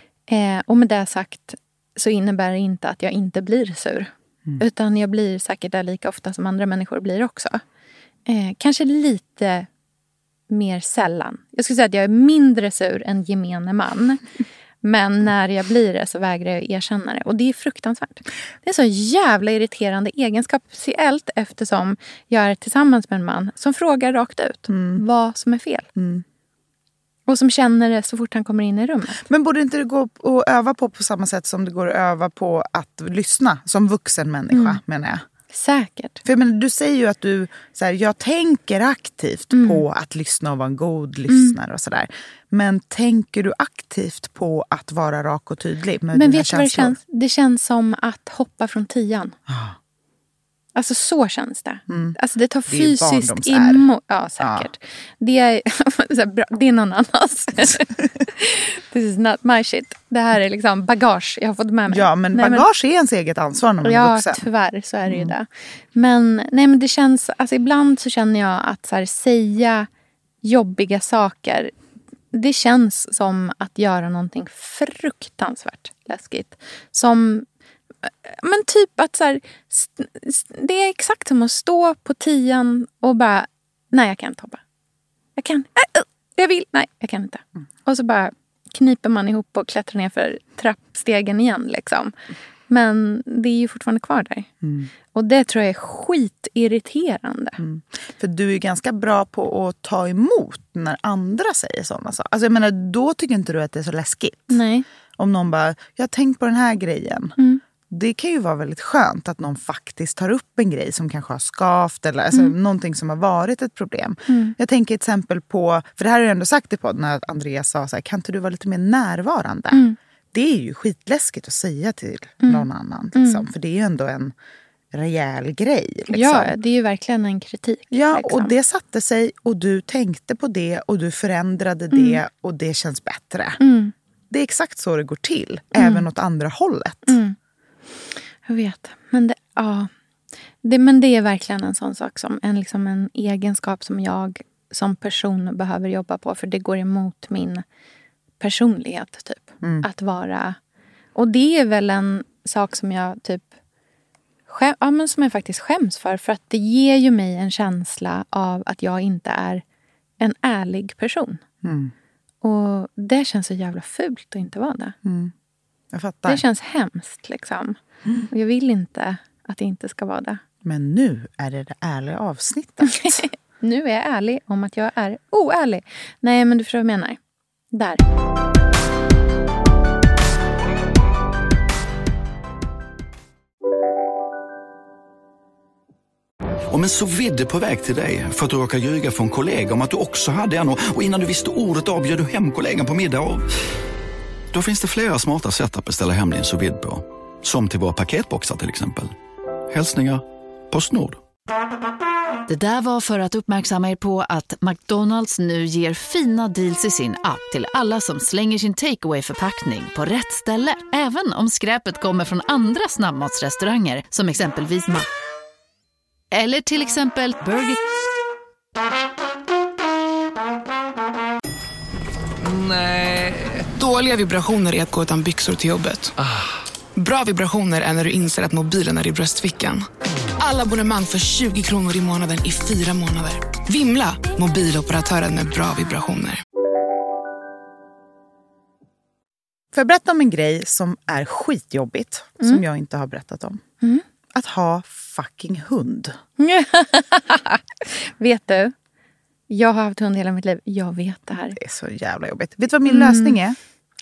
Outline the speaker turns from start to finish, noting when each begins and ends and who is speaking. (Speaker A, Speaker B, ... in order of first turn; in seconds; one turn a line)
Speaker A: 0.3-7.6
Speaker A: 8.3-9.7
Speaker A: 10.5-14.2
Speaker A: 14.8-25.9
Speaker B: 24.7-25.0
Speaker B: 25.9-26.2
Speaker A: 27.3-29.2
Speaker B: 29.2-35.2
Speaker A: 34.5-34.8
Speaker A: 35.5-36.2
Speaker B: 36.2-47.0
Speaker A: 39.5-39.8
Speaker A: 41.3-41.5
Speaker A: 46.1-49.4
Speaker B: 49.5-49.8
Speaker A: 50.8-62.6
Speaker B: 51.9-52.2
Speaker B: 52.7-53.9
Speaker B: 54.4-54.7
Speaker B: 61.9-64.4
Speaker A: 63.8-69.9
Speaker B: 65.1-65.3
Speaker A: 70.4-71.7
Speaker A: 72.3-77.5
Speaker A: 78.0-84.6
Speaker A: 85.3-92.1
Speaker A: 92.7-94.5
Speaker B: 94.6-94.9
Speaker A: 95.1-97.6
Speaker B: 97.6-104.6
Speaker A: 104.5-104.8
Speaker B: 105.2-107.3
Speaker B: 107.9-124.3
Speaker A: 114.3-114.5
Speaker A: 119.7-120.0
Speaker A: 122.4-123.4
Speaker B: 124.9-126.5
Speaker A: 126.1-128.5
Speaker B: 127.9-133.6
Speaker A: 131.9-132.2
Speaker A: 133.6-133.9
Speaker B: 134.3-137.2
Speaker A: 135.8-136.0
Speaker A: 137.1-137.3
Speaker A: 138.4-139.9
Speaker A: 140.6-147.6
Speaker A: 148.4-150.6
Speaker A: 151.1-153.5
Speaker A: 154.5-159.6
Speaker A: 160.2-161.4
Speaker B: 161.6-161.9
Speaker A: 162.4-164.9
Speaker B: 165.0-165.3
Speaker B: 165.9-166.4
Speaker A: 166.3-170.4
Speaker B: 170.6-173.2
Speaker A: 172.8-177.2
Speaker A: 177.7-178.0
Speaker C: 186.7-193.5
Speaker C: 194.5-199.1
Speaker C: 199.7-201.2
Speaker D: 202.5-215.1
Speaker D: 216.3-217.8
Speaker E: 222.4-226.1
Speaker E: 226.9-229.8
Speaker E: 230.4-236.4
Speaker B: 239.7-243.6
Speaker B: 244.3-246.2
Speaker A: 246.4-248.7
Speaker A: 249.5-251.6
Speaker B: 251.5-253.6
Speaker A: 252.8-253.4